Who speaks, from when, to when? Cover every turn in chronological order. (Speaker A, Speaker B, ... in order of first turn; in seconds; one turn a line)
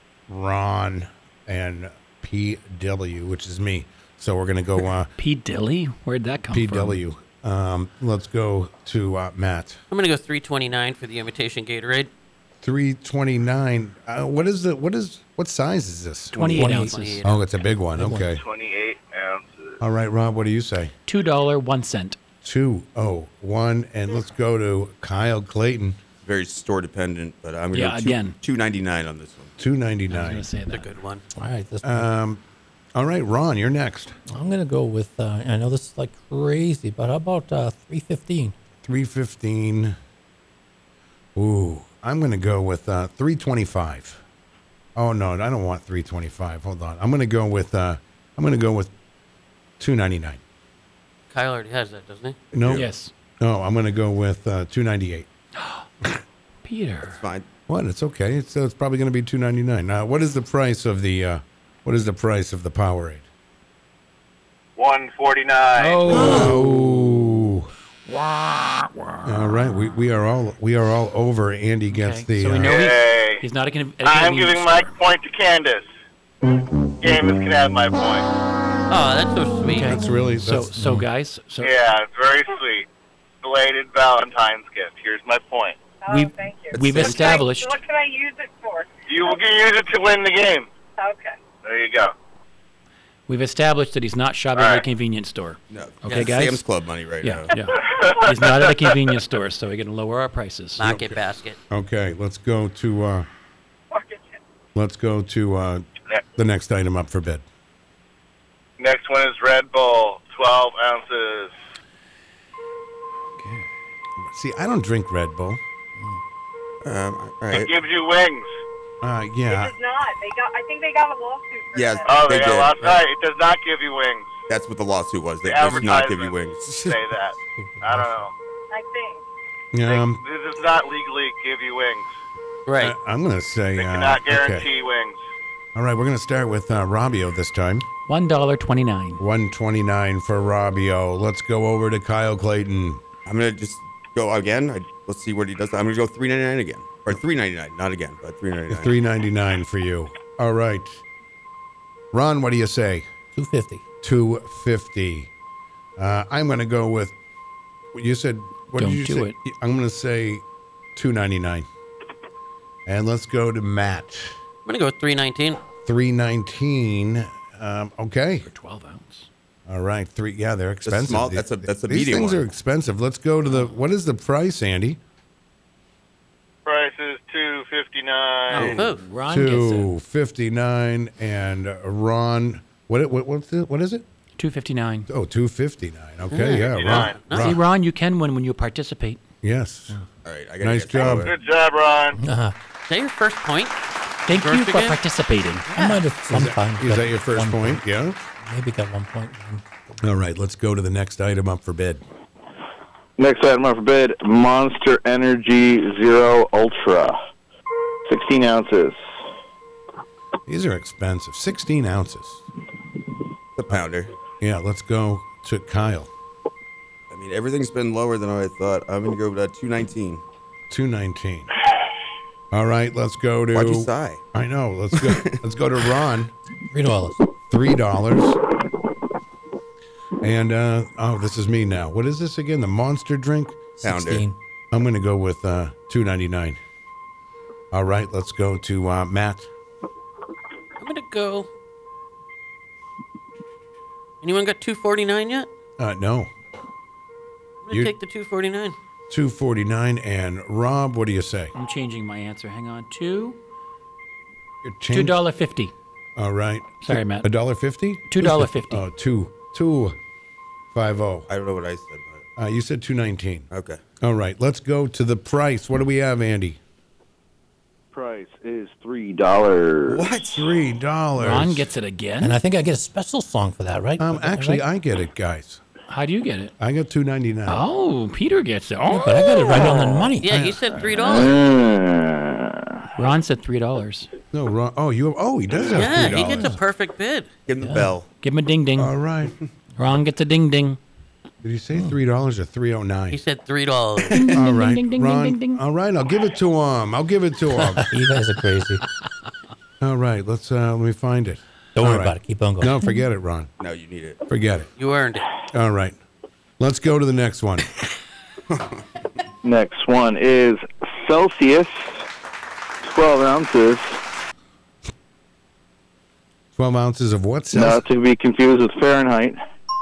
Speaker A: 0.3-5.1
Speaker B: 5.2-7.0
Speaker A: 6.5-9.8
Speaker C: 9.9-12.1
Speaker A: 12.6-16.7
Speaker B: 16.3-17.1
Speaker C: 16.4-17.6
Speaker D: 16.6-17.1
Speaker A: 17.2-18.4
Speaker D: 18.0-18.2
Speaker E: 18.3-19.8
Speaker A: 19.8-20.9
Speaker B: 21.1-22.2
Speaker A: 22.4-26.0
Speaker F: 26.2-29.5
Speaker B: 27.7-28.4
Speaker A: 29.6-30.4
Speaker B: 30.1-30.9
Speaker C: 30.7-31.2
Speaker D: 31.4-32.1
Speaker A: 31.8-32.4
Speaker A: 32.9-34.2
Speaker D: 34.3-38.5
Speaker A: 38.8-40.0
Speaker A: 41.3-44.2
Speaker A: 44.9-48.9
Speaker A: 49.8-50.4
Speaker C: 51.3-52.4
Speaker A: 52.5-52.9
Speaker F: 52.6-52.9
Speaker B: 52.7-53.1
Speaker A: 53.4-55.3
Speaker B: 55.6-55.8
Speaker B: 56.6-57.2
Speaker F: 57.0-57.5
Speaker A: 57.7-63.2
Speaker E: 64.8-66.1
Speaker B: 65.8-66.7
Speaker A: 66.1-67.7
Speaker B: 68.1-69.0
Speaker A: 69.2-72.8
Speaker B: 71.9-74.9
Speaker E: 72.6-73.4
Speaker E: 74.0-75.9
Speaker E: 77.0-78.3
Speaker C: 78.9-80.0
Speaker B: 79.7-81.7
Speaker A: 79.8-80.7
Speaker E: 81.6-82.8
Speaker E: 83.4-85.8
Speaker G: 86.0-88.9
Speaker B: 86.1-87.8
Speaker F: 86.7-87.3
Speaker E: 89.1-90.7
Speaker G: 91.0-91.4
Speaker E: 91.6-92.1
Speaker B: 93.3-96.7
Speaker E: 94.5-94.8
Speaker F: 95.7-97.5
Speaker C: 96.0-96.4
Speaker B: 97.2-100.8
Speaker E: 97.9-98.7
Speaker C: 100.8-101.6
Speaker A: 100.8-103.3
Speaker G: 103.9-104.2
Speaker A: 104.7-107.4
Speaker E: 108.8-111.5
Speaker A: 114.2-115.6
Speaker F: 116.8-117.7
Speaker E: 117.5-118.5
Speaker A: 119.0-119.8
Speaker G: 119.5-122.4
Speaker F: 121.8-122.8
Speaker E: 122.1-124.3
Speaker F: 124.5-126.9
Speaker E: 125.4-128.3
Speaker D: 127.5-128.1
Speaker G: 128.7-129.2
Speaker A: 129.7-130.2
Speaker E: 129.8-132.1
Speaker C: 132.7-132.9
Speaker A: 132.8-134.7
Speaker E: 133.8-135.2
Speaker A: 135.7-137.9
Speaker B: 138.1-139.2
Speaker A: 139.2-143.0
Speaker F: 143.2-148.9
Speaker A: 148.7-151.0
Speaker A: 152.1-153.1
Speaker D: 153.3-153.8
Speaker A: 154.0-155.3
Speaker A: 156.0-157.1
Speaker A: 157.9-160.4
Speaker B: 158.8-159.4
Speaker A: 160.9-161.7
Speaker A: 162.8-164.4
Speaker C: 164.7-165.6
Speaker A: 165.8-168.4
Speaker B: 168.4-169.3
Speaker A: 169.7-175.0
Speaker F: 170.8-172.5
Speaker E: 176.6-178.7
Speaker B: 178.5-179.9
Speaker C: 178.6-179.0
Speaker A: 179.3-184.0
Speaker B: 184.4-185.1
Speaker A: 185.1-187.6
Speaker C: 186.3-187.5
Speaker E: 186.7-187.2
Speaker B: 187.3-189.2
Speaker A: 189.4-189.9
Speaker F: 190.2-191.3
Speaker A: 190.6-191.3
Speaker E: 190.9-192.2
Speaker D: 192.2-192.5
Speaker C: 192.9-195.0
Speaker B: 194.3-195.7
Speaker C: 195.7-196.0
Speaker D: 195.7-197.8
Speaker A: 196.3-198.2
Speaker D: 198.4-199.6
Speaker A: 200.0-202.0
Speaker H: 203.2-207.2
Speaker H: 208.1-209.0
Speaker A: 210.4-212.4
Speaker F: 213.6-214.1
Speaker A: 214.4-216.1
Speaker F: 217.1-220.2
Speaker A: 220.7-221.5
Speaker A: 222.5-226.3
Speaker F: 223.5-224.2
Speaker F: 224.9-225.4
Speaker D: 226.7-227.2
Speaker A: 227.5-228.4
Speaker A: 230.2-233.6
Speaker D: 233.8-234.3
Speaker F: 233.8-234.3
Speaker A: 234.7-236.6
Speaker A: 237.7-239.5
Speaker C: 240.8-241.5
Speaker C: 244.2-245.5
Speaker A: 245.8-246.3
Speaker C: 247.6-248.8
Speaker A: 249.1-251.5
Speaker B: 251.5-253.4
Speaker A: 254.6-255.2
Speaker B: 254.9-255.7
Speaker A: 256.1-260.0
Speaker B: 256.8-257.3
Speaker B: 258.1-258.8
Speaker A: 260.7-261.3
Speaker F: 261.3-262.2
Speaker A: 262.4-263.5
Speaker F: 263.5-263.8
Speaker A: 264.0-266.6
Speaker H: 267.9-270.1
Speaker F: 269.9-270.5
Speaker A: 270.2-271.7
Speaker B: 271.2-272.4
Speaker D: 272.2-274.6
Speaker A: 274.0-275.6
Speaker B: 275.9-276.5
Speaker A: 276.6-277.6
Speaker B: 277.5-279.9
Speaker D: 278.9-280.2
Speaker C: 279.5-281.4
Speaker A: 280.2-280.8
Speaker H: 281.0-282.8
Speaker B: 283.0-284.1
Speaker A: 284.3-286.6
Speaker F: 285.6-286.3
Speaker C: 285.7-287.3
Speaker F: 287.5-288.1
Speaker D: 287.6-287.9
Speaker B: 288.2-288.9
Speaker A: 288.8-289.4
Speaker B: 289.8-290.8
Speaker A: 291.4-293.2
Speaker C: 293.1-294.3
Speaker B: 294.1-295.6
Speaker A: 294.2-297.9
Speaker D: 297.9-298.8
Speaker A: 299.8-303.5
Speaker D: 301.8-302.8
Speaker F: 303.6-304.2
Speaker A: 304.3-304.7
Speaker C: 304.8-305.3
Speaker A: 305.5-306.0
Speaker A: 306.6-307.7
Speaker H: 309.4-312.0
Speaker H: 312.8-314.0
Speaker A: 316.6-317.8
Speaker H: 317.5-319.4